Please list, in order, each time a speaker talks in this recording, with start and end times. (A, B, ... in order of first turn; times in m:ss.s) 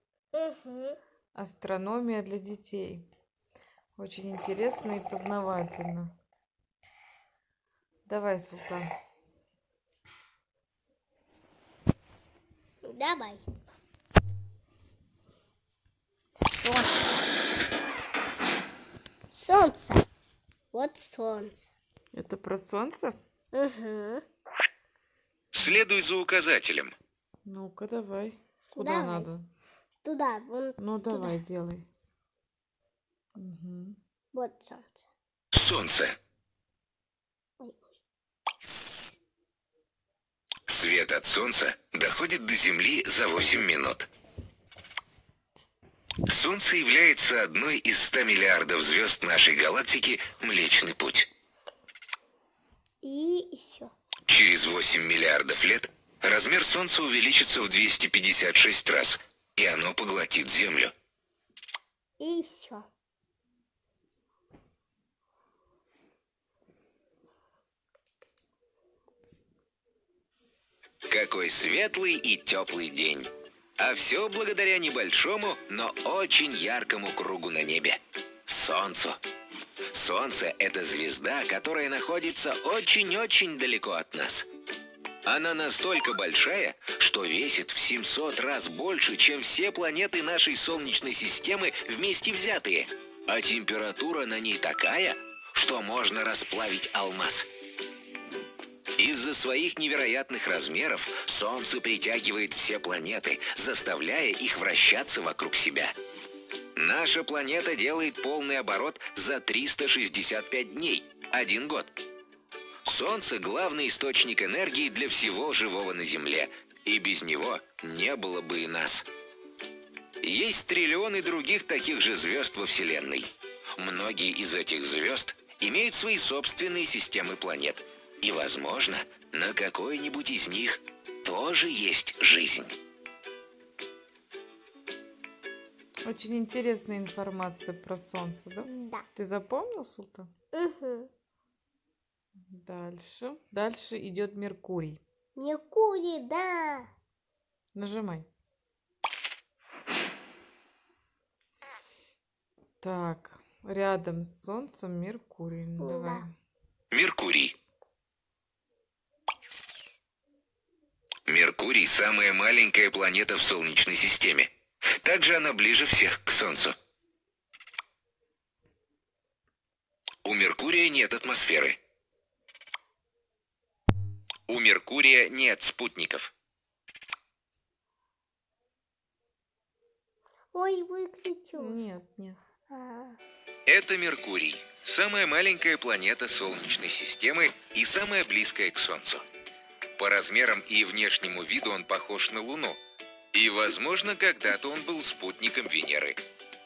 0:00.3-0:01.0 A
0:01.4-0:03.1 B
0:04.0-0:06.1 B
0:08.1-0:08.9 B
0:12.8-0:13.5 A
0:16.4-0:17.1 A
0:19.3-0:20.0 A
0:20.7-0:21.7 A
0:22.1-0:23.2 B
0:23.5-0:24.2 A
0:25.5-0:27.0 C
0:27.4-0:29.5 B
0:28.8-0:29.4 A
0:30.0-0:31.4 A
0:30.8-0:31.9 B
0:33.4-0:34.0 B
0:34.3-0:35.1 A
0:35.5-0:36.2 C
0:37.6-0:37.9 A
0:40.7-0:44.1 C
0:46.3-0:51.3 C
0:53.0-0:53.9 A
0:54.3-1:00.9 C
1:02.2-1:02.9 A
1:11.1-1:19.2 C
1:19.9-1:24.5 C
1:25.3-1:37.5 C
1:39.0-1:45.9 C
1:46.8-1:51.9 C
1:52.8-1:59.1 C
2:00.2-2:12.7 C
2:16.1-2:20.3 B
2:18.6-2:19.1 A
2:20.5-2:21.1 A
2:22.5-2:25.0 B
2:25.4-2:26.9 A
2:27.8-2:28.3 B
2:32.8-2:36.4 B
2:35.8-2:36.2 A
2:36.9-2:37.6 C
2:41.3-2:46.8 C
2:50.2-2:51.8 C
2:54.5-2:56.3 C
3:00.5-3:01.8 A
3:01.6-3:02.4 B
3:02.7-3:03.2 A
3:03.7-3:09.2 C
3:10.0-3:12.8 C
3:13.3-3:16.2 C